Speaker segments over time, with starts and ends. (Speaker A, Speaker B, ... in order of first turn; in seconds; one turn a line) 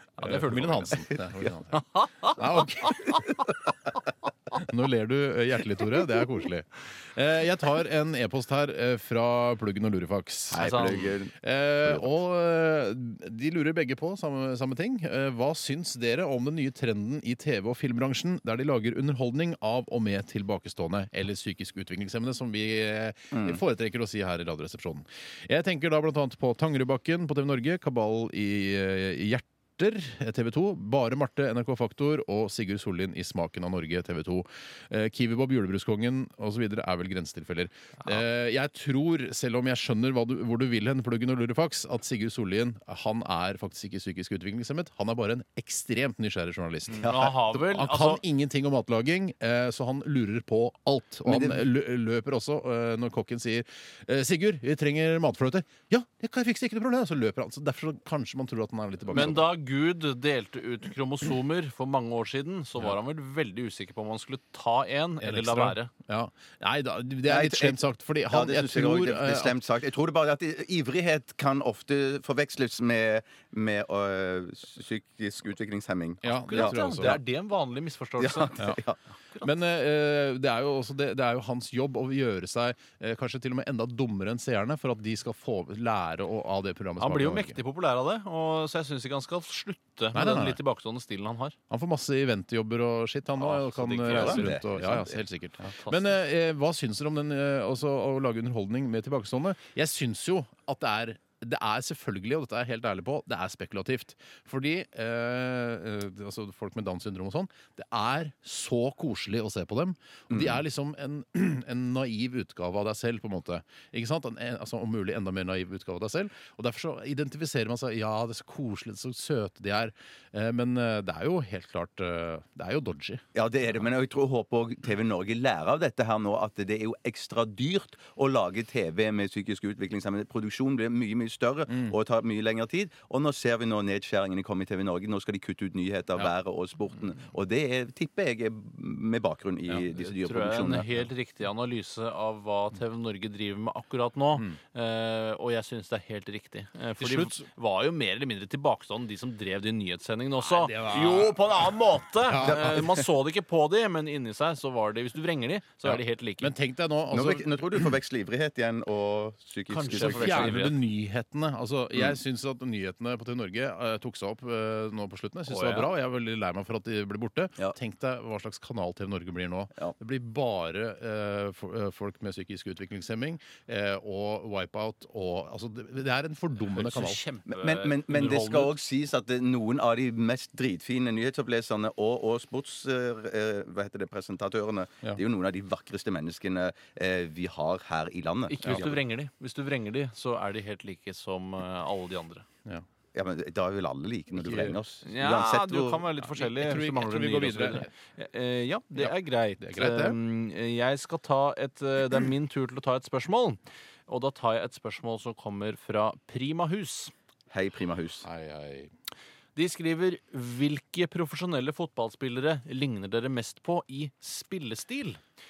Speaker A: 0.2-1.1
Speaker B: 0.2-3.5
Speaker A: 1.7-3.0
Speaker B: 4.5-59.5
Speaker C: 10.5-12.2
Speaker A: 10.5-11.2
Speaker C: 23.3-23.6
Speaker A: 47.0-48.2
Speaker C: 47.0-47.3
Speaker C: 51.2-51.7
Speaker A: 59.1-65.9
Speaker B: 65.2-69.6
Speaker C: 67.2-77.2
Speaker B: 76.2-77.2
Speaker A: 76.3-78.5
Speaker C: 78.2-79.0
Speaker B: 79.4-87.6
Speaker A: 87.0-91.6
Speaker B: 90.1-90.6
Speaker B: 91.7-123.2
Speaker A: 93.4-95.1
Speaker C: 94.1-95.0
Speaker A: 95.7-96.2
Speaker C: 110.3-110.6
Speaker C: 123.3-140.9
Speaker B: 131.7-132.0
Speaker A: 139.9-156.5
Speaker B: 147.0-147.5
Speaker B: 150.4-151.6
Speaker B: 152.2-153.1
Speaker B: 155.8-157.9
Speaker C: 157.1-160.6
Speaker A: 159.7-160.8
Speaker B: 159.9-177.2
Speaker C: 161.9-162.2
Speaker A: 165.5-165.9
Speaker A: 176.7-178.8
Speaker C: 177.5-189.0
Speaker A: 188.5-192.4
Speaker C: 193.1-196.1
Speaker B: 194.3-194.8
Speaker A: 195.0-207.1
Speaker B: 196.2-197.9
Speaker B: 199.0-200.2
Speaker C: 207.5-208.3
Speaker B: 208.2-208.9
Speaker A: 209.6-215.2